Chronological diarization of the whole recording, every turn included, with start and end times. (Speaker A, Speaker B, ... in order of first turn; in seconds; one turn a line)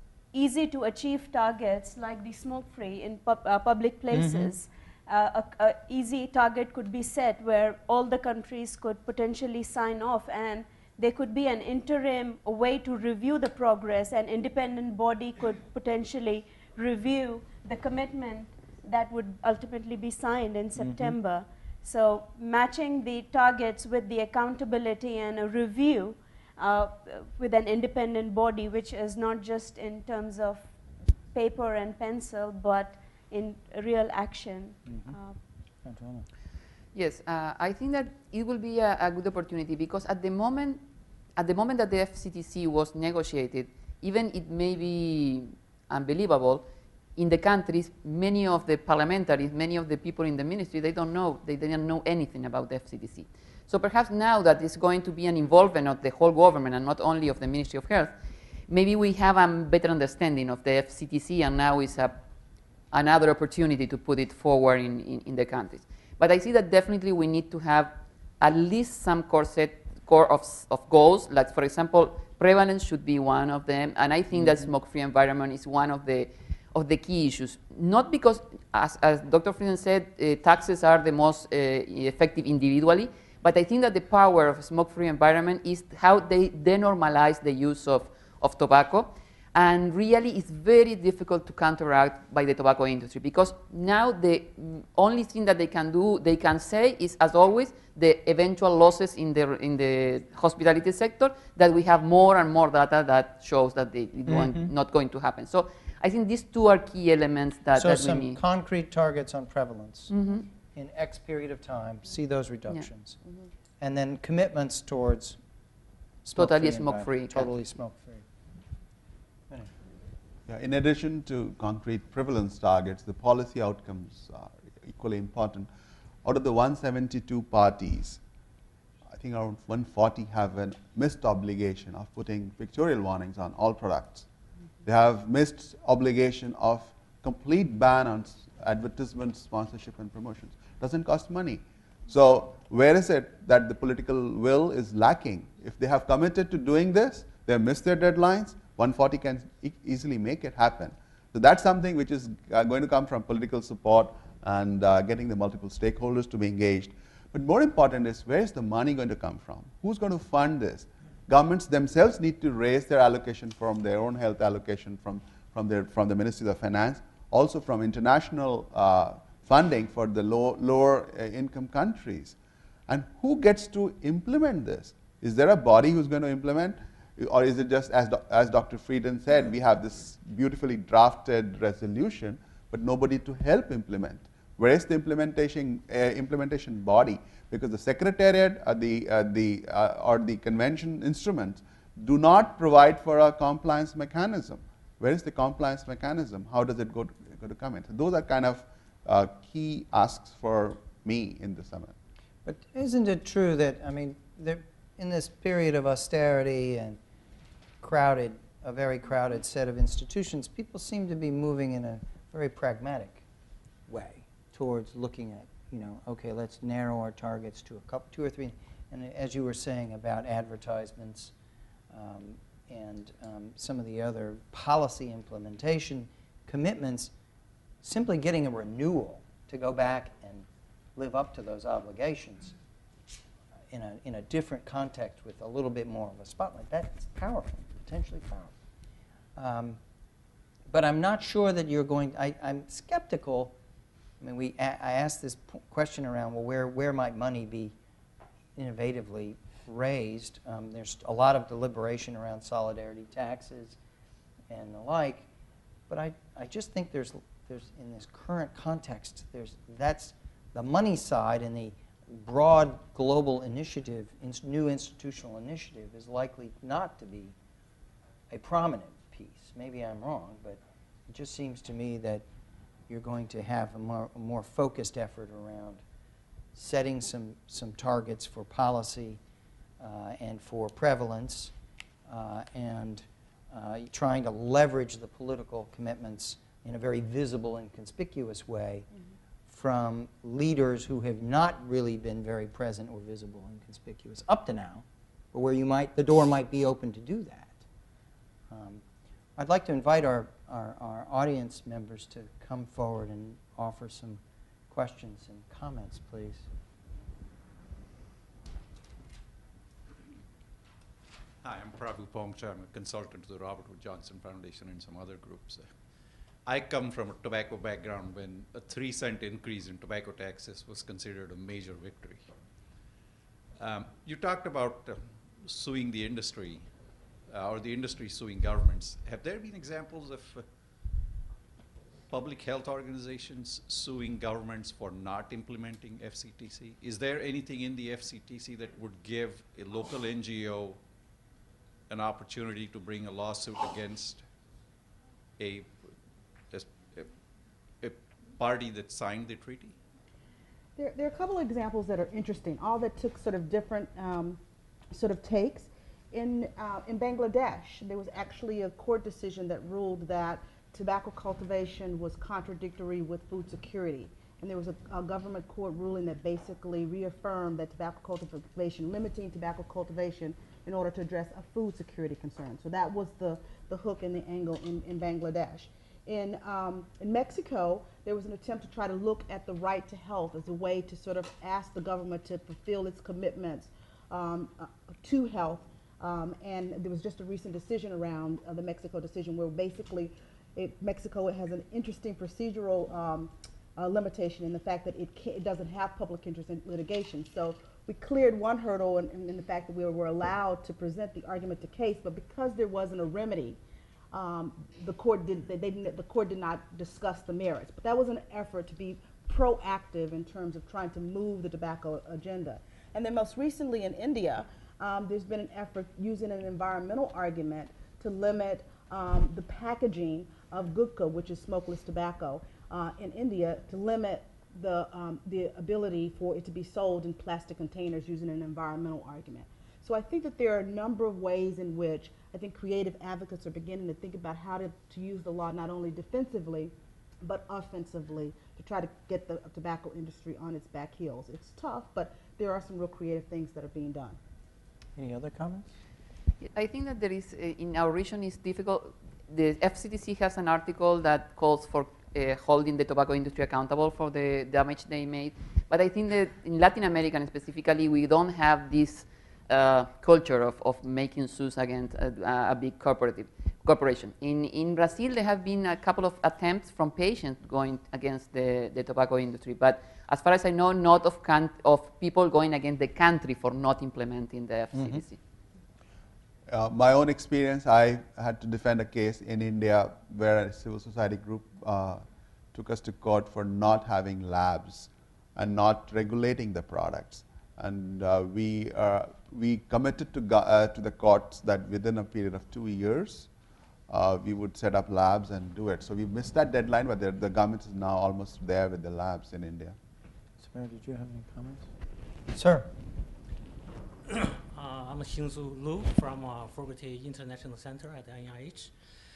Speaker A: 0.3-30.7
Speaker B: 4.1-4.5
Speaker B: 20.8-21.2
Speaker A: 31.3-35.4
Speaker B: 34.9-35.2
Speaker B: 35.8-36.3
Speaker C: 36.9-40.8
Speaker C: 41.4-46.6
Speaker C: 47.2-58.1
Speaker C: 58.7-62.2
Speaker C: 62.9-108.4
Speaker B: 104.3-104.7
Speaker B: 107.7-110.1
Speaker C: 110.1-110.5
Speaker B: 110.7-113.2
Speaker B: 113.8-115.4
Speaker B: 116.2-118.2
Speaker C: 116.3-117.5
Speaker D: 120.5-125.7
Speaker D: 126.2-128.2
Speaker D: 129.1-134.3
Speaker D: 134.8-172.4
Speaker D: 172.9-201.9
Speaker B: 202.4-207.0
Speaker B: 207.8-213.2
Speaker B: 213.9-221.3
Speaker B: 221.9-227.1
Speaker B: 227.8-232.6
Speaker B: 233.7-238.5
Speaker B: 239.4-239.8
Speaker B: 240.7-243.6
Speaker B: 244.2-247.7
Speaker B: 248.6-253.8
Speaker B: 254.5-255.3
Speaker B: 255.9-267.4
Speaker B: 268.3-272.3
Speaker B: 272.9-275.8
Speaker B: 276.6-279.2
Speaker B: 279.8-281.5
Speaker B: 282.1-288.9
Speaker B: 289.5-297.6
Speaker B: 298.5-298.8
Speaker B: 299.4-306.5
Speaker E: 311.4-315.7
Speaker E: 316.4-322.3
Speaker E: 323.6-326.7
Speaker E: 327.3-330.4
Speaker E: 332.1-340.8
Speaker E: 341.9-344.2
Speaker E: 345.4-345.9
Speaker E: 346.5-347.1
Speaker E: 347.8-349.7
Speaker F: 350.8-354.4
Speaker F: 354.9-403.6
Speaker F: 404.1-444.2
Speaker B: 445.0-445.7
Speaker C: 446.4-475.2
Speaker B: 474.8-475.0
Speaker D: 476.5-482.0
Speaker D: 482.5-493.3
Speaker D: 493.9-499.8
Speaker B: 500.4-501.7
Speaker B: 502.3-502.7
Speaker G: 504.2-508.7